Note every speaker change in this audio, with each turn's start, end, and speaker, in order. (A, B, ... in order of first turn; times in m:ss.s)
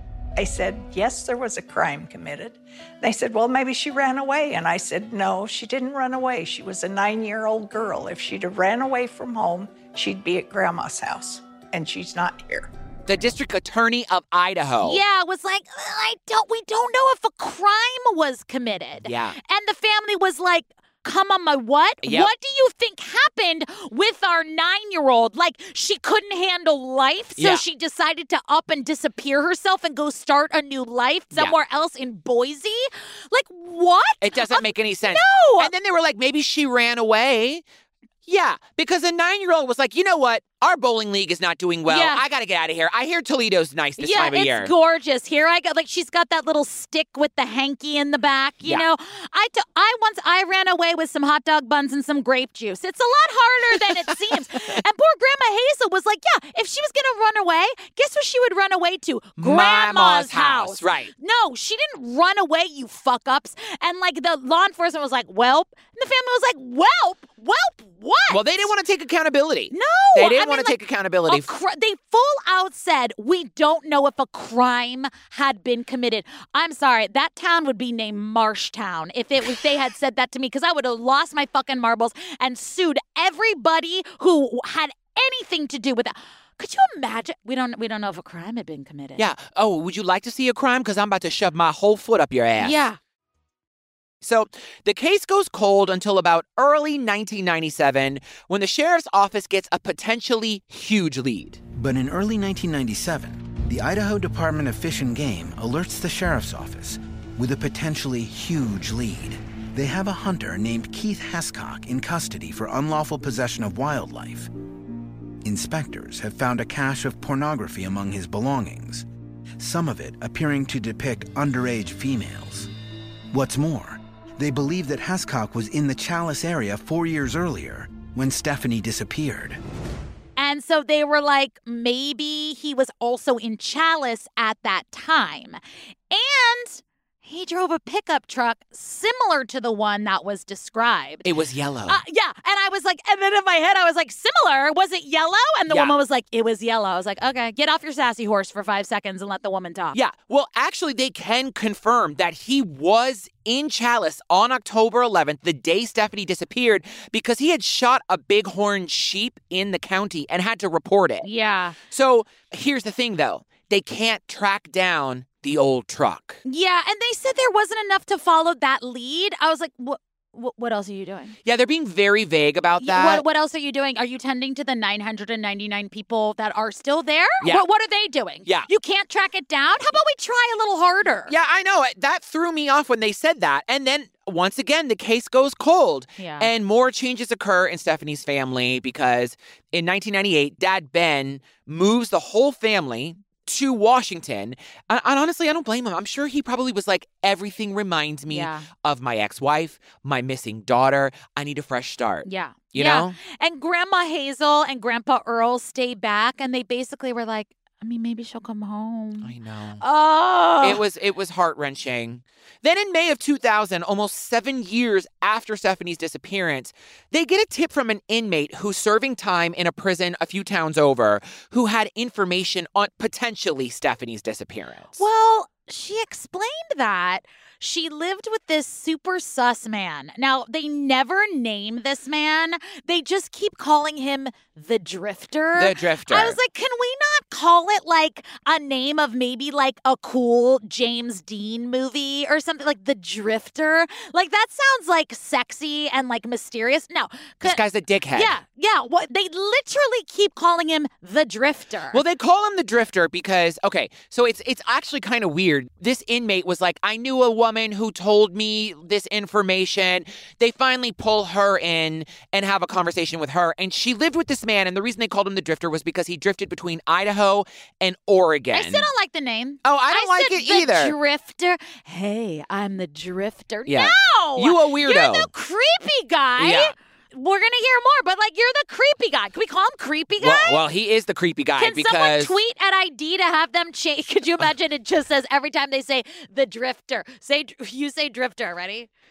0:00.4-0:12.7 A
0:13.1-0:15.0 B
0:14.8-0:35.7 C
0:19.0-0:19.4 B
0:22.0-0:22.3 B
0:27.4-0:27.6 B
0:34.2-0:37.6 B
0:38.3-0:44.7 B
0:41.8-0:42.2 C
0:44.0-1:08.6 C
0:53.8-0:54.8 B
0:59.4-1:01.1 B
1:08.3-1:11.5 B
1:09.7-1:10.8 C
1:11.3-1:29.2 C
1:29.2-1:32.8 B
1:32.6-1:33.0 C
1:34.2-1:41.6 B
1:41.7-1:54.5 D
1:55.4-1:59.0 D
1:59.6-2:02.7 D
2:03.3-2:09.6 D
2:10.4-2:15.6 C
2:16.1-2:21.3 C
2:21.2-2:22.0 B
2:21.9-2:30.0 C
2:25.7-2:25.9 B
2:29.9-2:41.2 B
2:41.2-2:41.8 C
2:41.9-2:46.4 B
2:46.4-2:51.4 C
2:51.4-2:53.2 B
2:52.8-3:01.3 C
3:01.3-3:23.2 B
3:06.2-3:06.5 C
3:18.3-3:18.7 C
3:22.2-3:30.8 C
3:29.2-3:29.8 B
3:30.6-3:45.0 B
3:45.0-4:07.6 C
3:55.5-3:56.4 B
4:07.4-4:08.3 B
4:08.1-4:12.0 C
4:11.9-4:28.8 B
4:28.5-4:40.6 C
4:29.6-4:30.9 B
4:33.7-4:35.3 B
4:36.4-4:36.7 B
4:40.2-4:42.4 B
4:41.6-4:48.9 C